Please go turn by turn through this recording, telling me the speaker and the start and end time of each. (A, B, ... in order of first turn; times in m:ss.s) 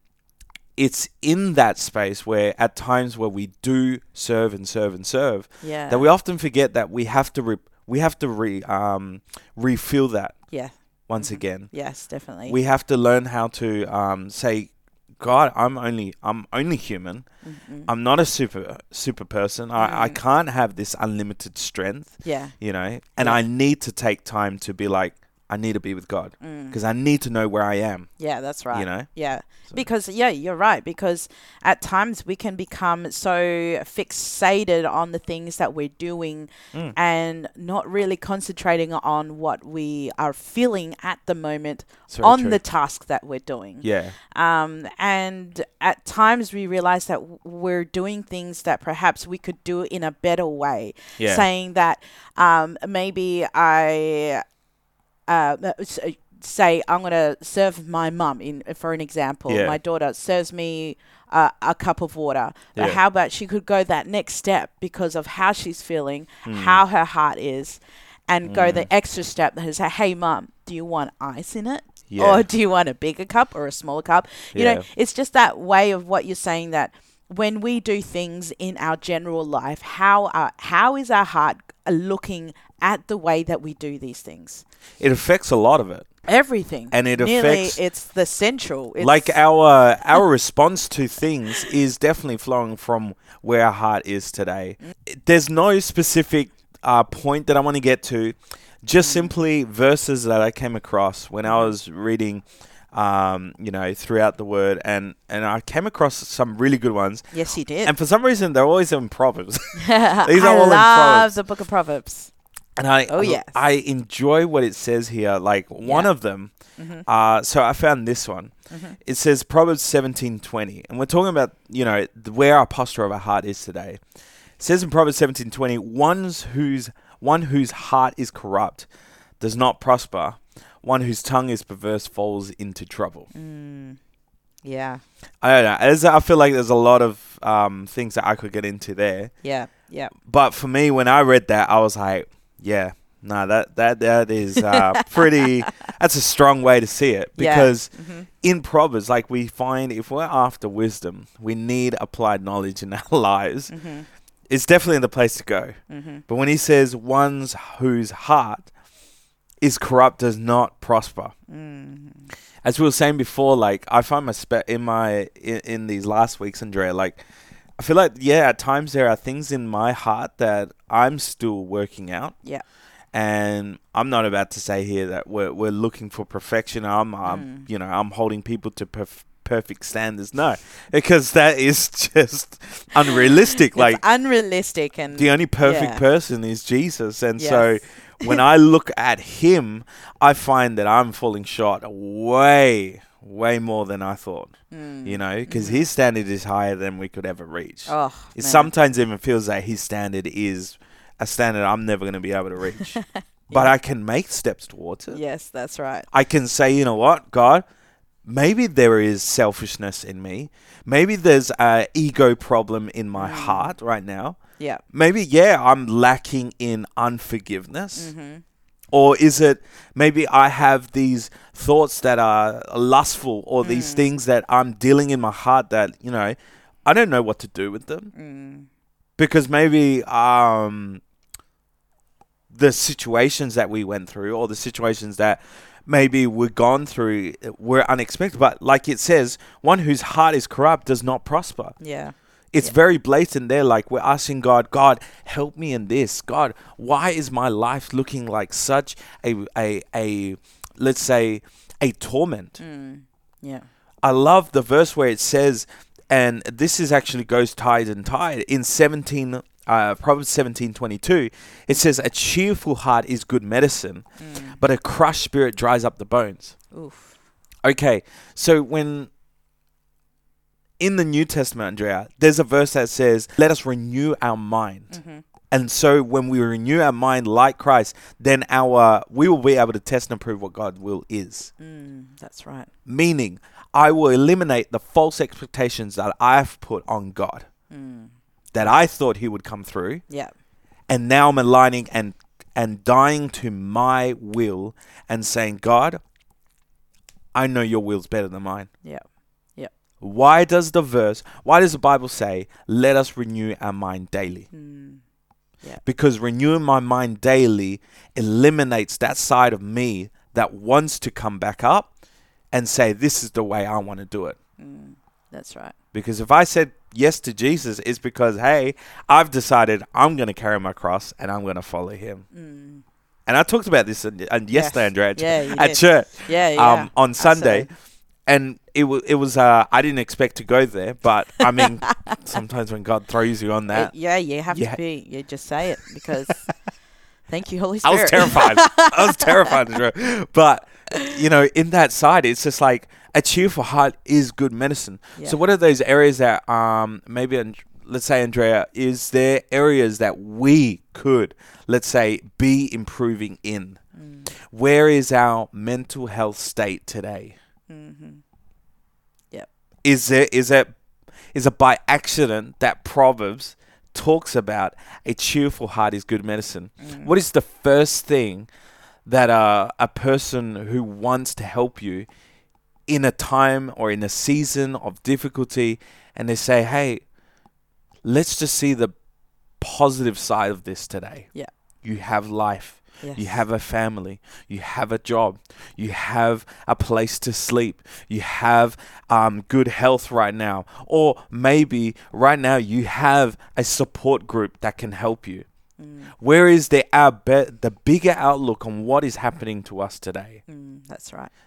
0:00.8-0:10.4 A
0:05.6-0:06.1 B
0:10.5-0:12.6 B
0:11.1-0:11.7 A
0:12.5-0:17.3 A
0:17.4-0:17.9 B
0:17.9-0:28.1 A
0:19.8-0:20.2 B
0:22.2-0:22.5 B
0:26.4-0:26.8 B
0:28.2-0:54.4 B
0:28.7-0:29.1 A
0:42.1-0:42.6 A
0:43.8-0:44.1 A
0:51.2-0:51.4 A
0:55.3-1:24.6 B
0:59.5-0:59.8 A
1:06.4-1:06.8 A
1:08.4-1:08.9 A
1:12.1-1:12.4 A
1:14.5-1:14.8 A
1:25.0-1:26.1 A
1:26.3-1:29.4 B
1:26.9-1:27.8 A
1:29.0-1:47.3 A
1:39.0-1:39.3 B
1:41.4-1:41.7 B
1:47.3-1:47.9 B
1:47.8-1:51.4 A
1:49.8-1:52.3 B
1:52.8-1:56.5 A
1:53.1-1:53.6 B
1:55.8-1:56.1 B
1:56.8-1:57.0 B
1:57.1-1:58.5 A
1:58.7-1:59.0 B
1:59.0-2:04.0 A
2:04.6-2:08.9 A
2:09.4-2:13.3 A
2:13.3-2:14.0 B
2:14.6-2:15.0 B
2:15.4-2:19.3 A
2:19.4-2:20.1 B
2:20.2-2:27.9 A
2:24.6-2:25.7 B
2:27.4-2:28.3 B
2:28.4-2:33.7 A
2:33.7-2:34.1 B
2:34.5-2:35.8 A
2:35.9-2:36.2 B
2:36.3-2:38.7 A
2:39.6-2:41.3 A
2:41.5-2:42.3 B
2:42.6-2:47.2 A
2:47.8-2:52.4 A
2:53.1-3:04.0 A
2:57.2-2:57.7 B
3:03.0-3:06.0 B
3:05.1-3:14.5 A
3:07.4-3:08.4 B
3:14.7-3:15.8 B
3:15.0-3:23.0 A
3:17.9-3:18.7 B
3:22.8-3:23.7 B
3:23.5-3:25.2 A
3:25.1-3:26.1 B
3:26.1-3:27.6 A
3:28.2-3:34.4 A
3:33.2-3:33.7 B
3:34.9-3:38.1 A
3:38.0-3:38.4 B
3:38.9-3:48.1 A
3:43.6-3:44.1 B
3:48.2-3:48.7 B
3:49.2-3:51.0 A
3:52.5-4:01.8 A
4:01.8-4:02.7 B
4:02.5-4:12.6 A
4:12.6-4:13.6 B
4:14.0-4:24.0 A
4:24.2-4:24.6 B
4:24.6-4:26.6 A
4:26.7-4:27.2 B
4:27.6-4:29.1 A
4:30.8-4:34.9 A
4:34.9-4:35.2 B
4:35.5-4:41.5 A
4:41.6-4:42.7 B
4:42.9-4:47.5 A
4:47.7-4:48.1 B
4:48.5-4:50.0 A
4:50.9-4:56.0 A
4:57.4-4:58.7 A
5:00.0-5:04.5 A
5:04.5-5:05.0 B
5:05.8-5:11.9 A
5:12.5-5:14.4 A
5:14.6-5:15.7 B
5:15.9-5:22.2 A
5:22.3-5:22.8 B
5:23.3-5:27.7 A
5:24.5-5:27.7 B
5:28.3-5:33.9 A
5:31.5-5:32.4 B
5:33.7-5:36.4 B
5:34.5-5:34.8 A
5:37.3-5:39.6 B
5:37.8-5:53.8 A
5:40.9-5:41.2 B
5:54.0-5:54.3 B
5:54.5-5:57.4 A
5:57.7-5:58.2 B
5:59.8-6:00.7 A
6:01.3-6:08.5 A
6:06.8-6:07.2 B
6:09.1-6:12.1 A
6:12.9-6:17.0 A
6:18.0-6:18.9 A
6:19.6-6:21.3 A
6:21.8-6:35.4 A
6:23.0-6:23.3 B
6:35.8-6:36.1 B
6:36.2-6:40.4 A
6:40.5-6:41.3 B